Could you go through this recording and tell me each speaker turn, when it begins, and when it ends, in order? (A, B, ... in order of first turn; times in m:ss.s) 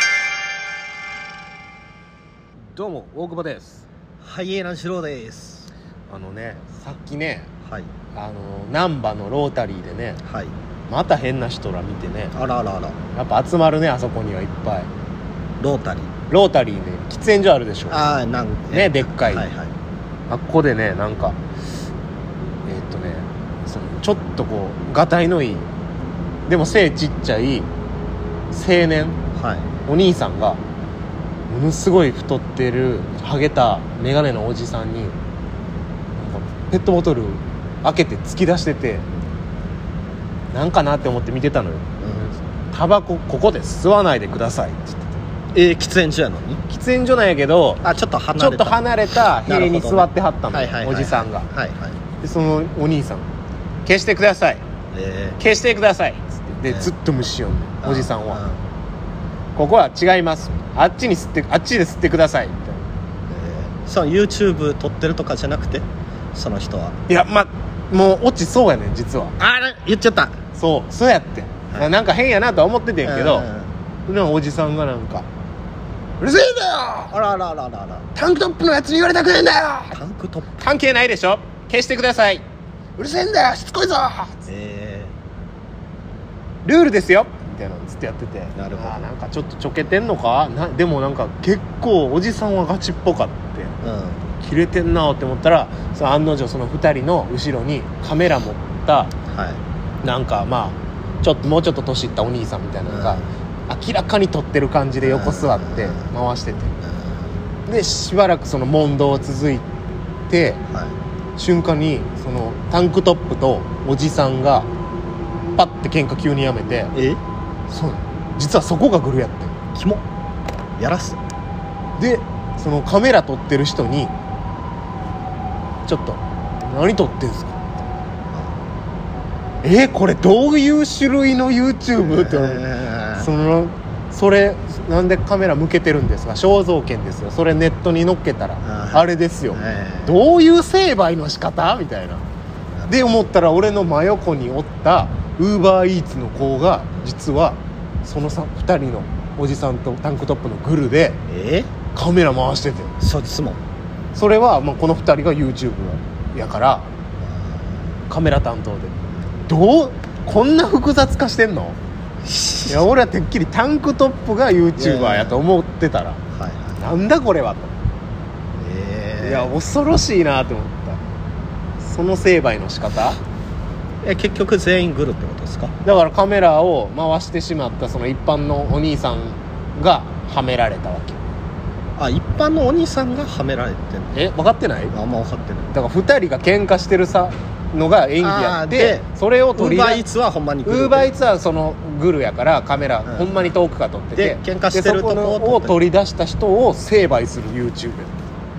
0:02.7-0:03.8 A
0:04.2-0:05.7 B
0:06.1-0:07.5 A
0:07.7-0:07.9 B
0:08.2-0:10.2 A
0:10.2-0:10.5 B
0:10.9-0:12.4 A
0:12.3-0:13.0 B
0:13.1-0:14.9 A
0:15.6-0:16.1 B
0:16.3-0:18.2 A
0:17.9-0:19.7 B
0:18.7-0:19.5 A
0:20.3-0:21.4 A
0:22.7-0:25.7 A
0:26.5-0:27.7 A
0:28.5-0:29.2 A
0:29.4-0:29.7 B
0:29.8-0:30.6 A
0:31.5-0:35.2 A
0:36.2-0:39.1 A
0:40.5-0:45.2 A
0:45.5-0:46.6 B
0:46.7-0:47.8 A
0:47.8-0:52.0 B
0:48.4-0:51.5 A
0:52.2-0:53.3 A
0:53.9-0:54.6 A
0:54.9-0:55.4 B
0:55.4-0:58.4 A
0:56.7-0:56.9 B
0:57.8-0:58.6 B
0:59.6-1:02.9 A
1:03.3-1:07.0 B
1:07.1-1:09.4 A
1:09.4-1:10.4 B
1:10.5-1:13.5 A
1:13.0-1:13.7 B
1:14.1-1:15.3 A
1:16.2-1:17.1 A
1:17.1-1:18.1 B
1:18.2-1:20.0 A
1:19.9-1:20.7 B
1:20.6-1:22.4 A
1:23.0-1:24.5 A
1:24.5-1:25.1 B
1:26.6-1:33.8 A
1:28.6-1:29.0 B
1:33.8-1:34.2 B
1:34.4-1:39.1 A
1:39.3-1:39.6 B
1:40.0-1:46.7 A
1:42.9-1:43.3 B
1:45.0-1:46.1 B
1:46.8-1:47.4 B
1:47.7-1:49.7 A
1:50.3-1:50.6 A
1:50.7-1:51.0 B
1:51.4-1:54.7 A
1:55.6-1:56.9 A
1:57.0-1:57.2 B
1:57.7-1:59.5 A
1:59.8-2:00.0 B
2:00.8-2:01.2 B
2:02.0-2:04.1 A
2:05.9-2:07.7 A
2:09.6-2:22.2 A
2:12.0-2:13.3 B
2:18.6-2:20.2 B
2:22.9-2:31.2 A
2:31.3-2:31.7 B
2:31.9-2:33.0 A
2:33.0-2:33.6 B
2:34.2-2:36.9 A
2:37.2-2:37.8 B
2:38.1-2:39.0 A
2:39.5-2:41.8 A
2:42.2-2:42.8 B
2:42.7-2:46.2 A
2:44.8-2:45.4 B
2:46.3-2:46.8 B
2:46.8-2:47.7 A
2:48.6-2:49.5 B
2:49.2-2:51.0 A
2:51.8-2:53.2 A
2:54.0-2:55.8 B
2:55.8-3:01.2 A
3:02.0-3:04.2 B
3:04.1-3:04.9 A
3:04.9-3:05.7 B
3:05.7-3:10.0 A
3:08.2-3:11.1 B
3:10.7-3:18.3 A
3:13.1-3:13.5 B
3:14.2-3:15.8 B